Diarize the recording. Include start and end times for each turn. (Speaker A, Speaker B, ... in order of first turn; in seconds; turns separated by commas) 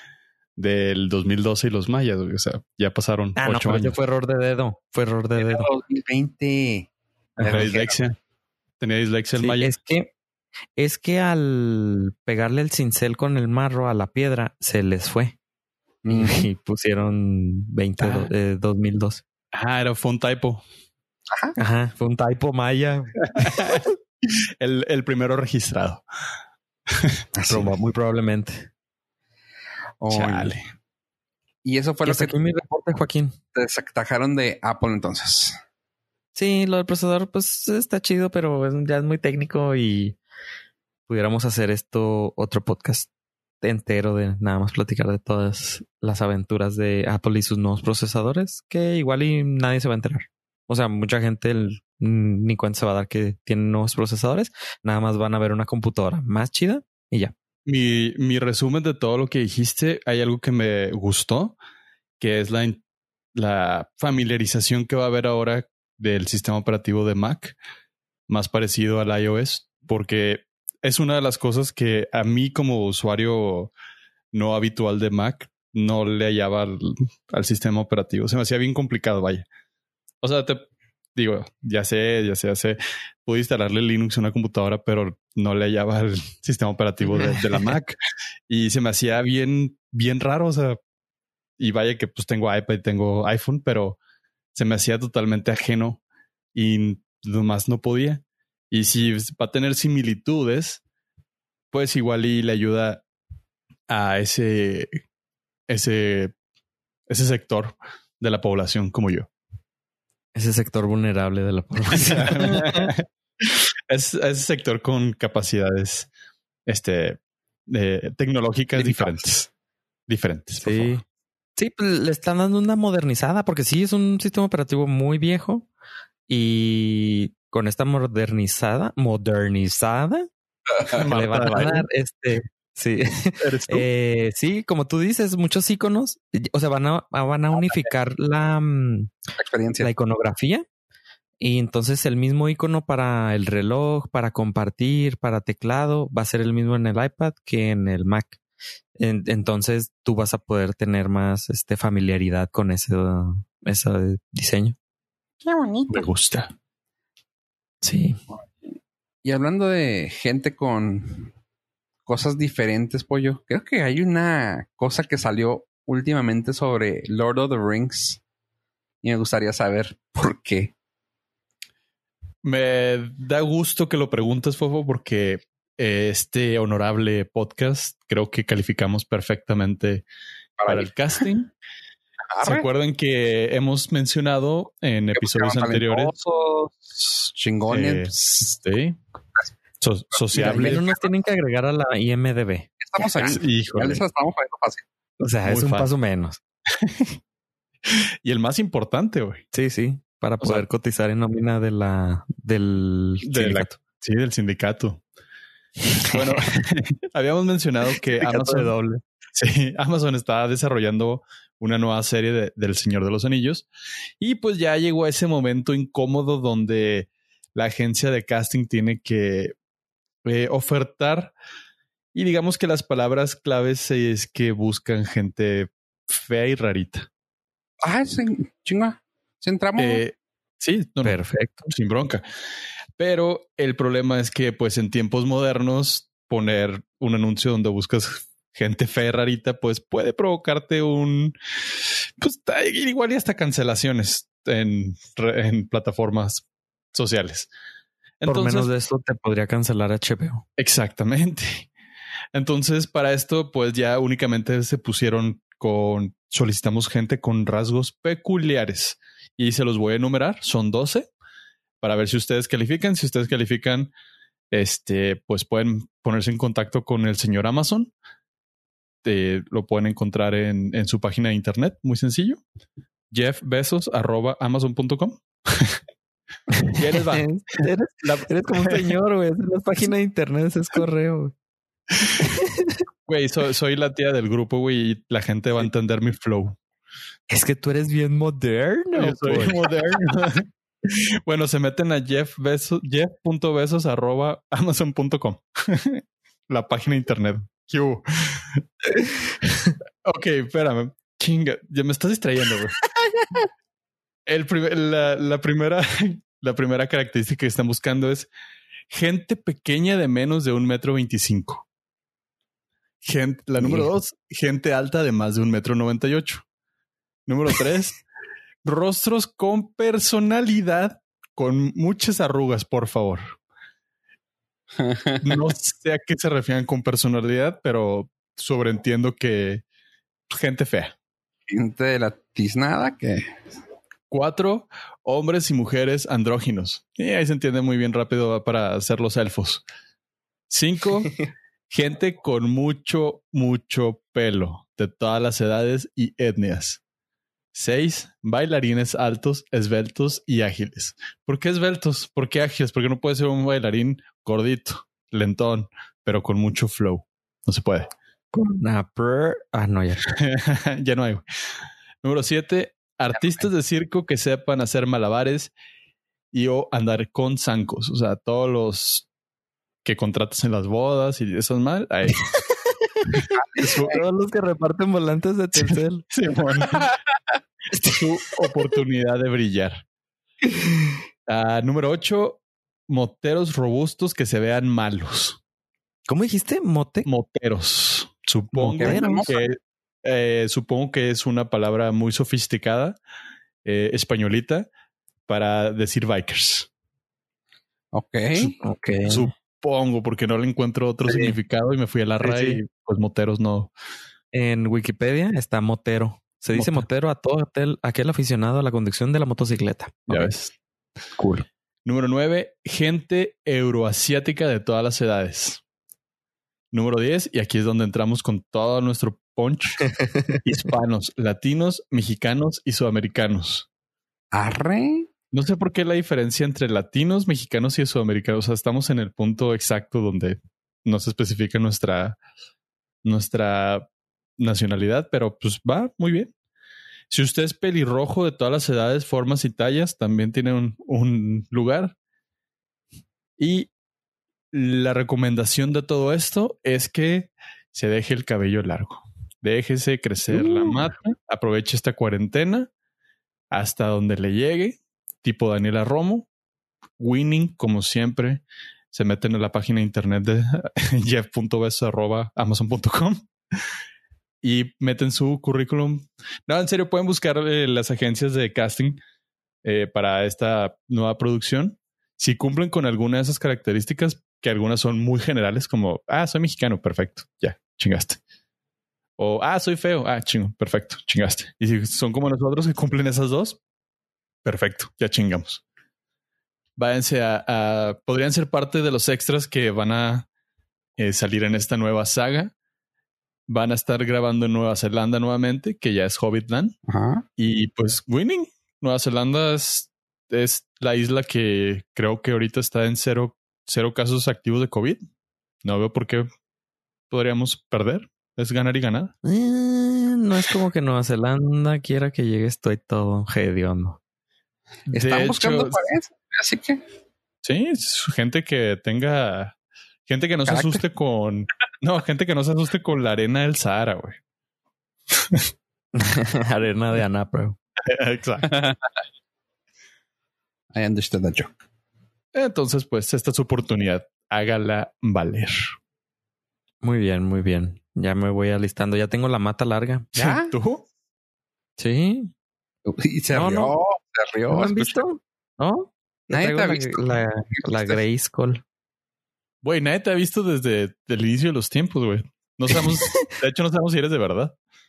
Speaker A: 0.6-4.0, Speaker B: 3.4-5.7, Speaker C: 5.4-8.0, Speaker B: 7.4-7.7, Speaker A: 7.4-8.2, Speaker A: 8.8-9.7, Speaker B: 9.4-10.1, Speaker B: 10.8-15.3, Speaker C: 16.0-16.4, Speaker B: 16.1-19.2, Speaker C: 18.0-18.3, Speaker A: 19.5-20.6, Speaker C: 21.3-21.6, Speaker B: 21.6-23.9, Speaker A: 23.3-26.0, Speaker C: 27.3-27.7, Speaker B: 27.4-28.7, Speaker C: 30.0-30.6, Speaker A: 30.1-30.6, Speaker C: 31.6-32.4, Speaker B: 32.0-33.4, Speaker C: 33.5-35.6, Speaker B: 36.3-40.2, Speaker B: 41.1-43.1, Speaker B: 43.6-57.3, Speaker A: 57.6-61.6, Speaker A: 62.2-62.8, Speaker A: 63.3-67.5, Speaker A: 68.3-73.7, Speaker A: 74.3-79.5, Speaker A: 80.2-80.6, Speaker A: 81.2-87.9, Speaker B: 87.0-87.6, Speaker A: 88.5-90.8, Speaker A: 91.6-94.0, Speaker A: 94.5-96.0, Speaker A: 96.5-100.8, Speaker A: 101.7-103.0, Speaker A: 103.9-105.0, Speaker A: 105.7-106.3, Speaker A: 107.1-109.3, Speaker B: 110.3-112.9, Speaker A: 111.9-116.1, Speaker A: 116.7-119.5, Speaker C: 118.8-119.1, Speaker A: 120.1-121.0, Speaker B: 120.6-121.0, Speaker B: 121.6-125.7, Speaker B: 126.3-130.3, Speaker A: 130.9-131.8, Speaker B: 131.1-139.1, Speaker A: 133.4-133.9, Speaker C: 137.5-137.9, Speaker C: 139.4-139.9, Speaker B: 139.8-140.6, Speaker B: 141.4-148.4, Speaker B: 149.0-154.8, Speaker C: 155.4-156.1, Speaker A: 155.9-156.5, Speaker B: 157.8-158.2, Speaker C: 159.2-161.3, Speaker C: 162.1-168.2, Speaker C: 169.0-170.7, Speaker A: 172.4-180.0, Speaker C: 180.6-181.2, Speaker A: 180.6-181.5, Speaker C: 182.3-182.7, Speaker A: 182.4-186.1, Speaker C: 185.1-188.6, Speaker A: 187.7-189.0, Speaker A: 189.8-190.8, Speaker C: 190.2-191.0, Speaker B: 190.3-192.7, Speaker C: 192.8-194.8, Speaker A: 193.1-194.0, Speaker B: 195.2-196.4, Speaker A: 195.4-195.9, Speaker A: 196.8-197.2, Speaker A: 198.2-199.4, Speaker B: 199.5-203.7, Speaker A: 200.4-200.7, Speaker A: 203.2-205.0, Speaker A: 206.1-208.8, Speaker B: 206.1-206.4, Speaker B: 208.2-209.0, Speaker A: 209.3-213.7, Speaker A: 214.2-219.5, Speaker A: 220.2-221.3, Speaker A: 222.1-227.1, Speaker C: 227.8-230.0, Speaker A: 229.8-232.2, Speaker B: 231.0-231.7, Speaker A: 233.0-241.3, Speaker A: 242.2-247.5, Speaker A: 248.2-248.7, Speaker B: 248.2-250.4, Speaker A: 250.6-251.7, Speaker A: 252.3-261.1, Speaker A: 261.8-263.9, Speaker A: 264.5-267.9, Speaker A: 269.0-272.4, Speaker A: 273.1-275.8, Speaker B: 276.6-281.3, Speaker A: 276.7-278.9, Speaker B: 282.2-282.8, Speaker A: 283.1-286.6, Speaker B: 287.3-289.7, Speaker A: 288.9-290.4, Speaker A: 291.2-298.6, Speaker A: 300.0-302.8, Speaker A: 304.2-308.3, Speaker A: 308.9-311.6, Speaker A: 313.0-316.4, Speaker B: 313.6-313.9, Speaker A: 317.3-318.0, Speaker A: 318.6-323.3, Speaker C: 324.8-325.4, Speaker A: 325.2-329.6, Speaker A: 330.3-330.9, Speaker C: 331.5-333.4, Speaker A: 334.1-339.6, Speaker A: 340.5-341.2, Speaker A: 341.7-346.8, Speaker A: 347.5-357.9, Speaker B: 358.3-360.1, Speaker A: 360.1-361.2, Speaker A: 362.0-365.5, Speaker A: 366.3-369.1, Speaker A: 369.8-372.3, Speaker B: 372.6-376.0, Speaker A: 373.1-374.0, Speaker C: 373.3-374.0, Speaker A: 375.7-376.9, Speaker B: 377.7-378.0, Speaker A: 377.9-379.8, Speaker B: 380.4-380.9, Speaker A: 381.3-385.4, Speaker B: 386.1-387.1, Speaker A: 387.0-393.0, Speaker B: 388.5-389.4, Speaker C: 388.7-389.4, Speaker A: 393.6-394.7, Speaker A: 395.3-396.7, Speaker C: 397.9-398.5, Speaker B: 398.6-399.3, Speaker A: 399.1-403.7, Speaker B: 401.1-401.4, Speaker B: 402.2-402.6, Speaker B: 404.3-410.4, Speaker A: 406.5-406.9, Speaker A: 410.1-410.5, Speaker B: 411.2-411.4, Speaker A: 411.8-415.6, Speaker A: 416.7-419.9, Speaker B: 420.0-420.4, Speaker A: 420.4-423.7, Speaker C: 424.3-425.1, Speaker A: 425.3-432.2, Speaker A: 433.0-436.3, Speaker A: 437.1-441.9, Speaker A: 443.4-443.7, Speaker A: 444.5-452.7, Speaker B: 450.3-450.9, Speaker A: 453.5-456.3, Speaker A: 457.0-463.2, Speaker A: 464.4-469.0, Speaker A: 469.6-478.2, Speaker A: 479.2-483.6, Speaker A: 484.4-485.6, Speaker A: 486.8-490.3, Speaker A: 491.0-492.5, Speaker A: 493.5-496.7, Speaker C: 496.9-497.2, Speaker A: 497.4-505.0, Speaker A: 505.6-506.3, Speaker A: 507.1-509.1, Speaker B: 509.2-514.0, Speaker A: 514.9-515.8, Speaker C: 514.9-516.8, Speaker A: 517.4-519.5, Speaker A: 520.1-524.2, Speaker C: 520.4-520.8, Speaker B: 525.9-527.6, Speaker A: 527.9-528.5, Speaker C: 528.5-528.8, Speaker C: 530.7-531.6, Speaker A: 532.3-535.7, Speaker B: 536.8-540.1, Speaker C: 540.1-540.5, Speaker A: 540.1-540.8, Speaker B: 541.8-542.3, Speaker C: 542.9-545.0, Speaker B: 543.3-543.7, Speaker B: 544.5-548.6, Speaker C: 546.3-548.0, Speaker A: 549.6-554.5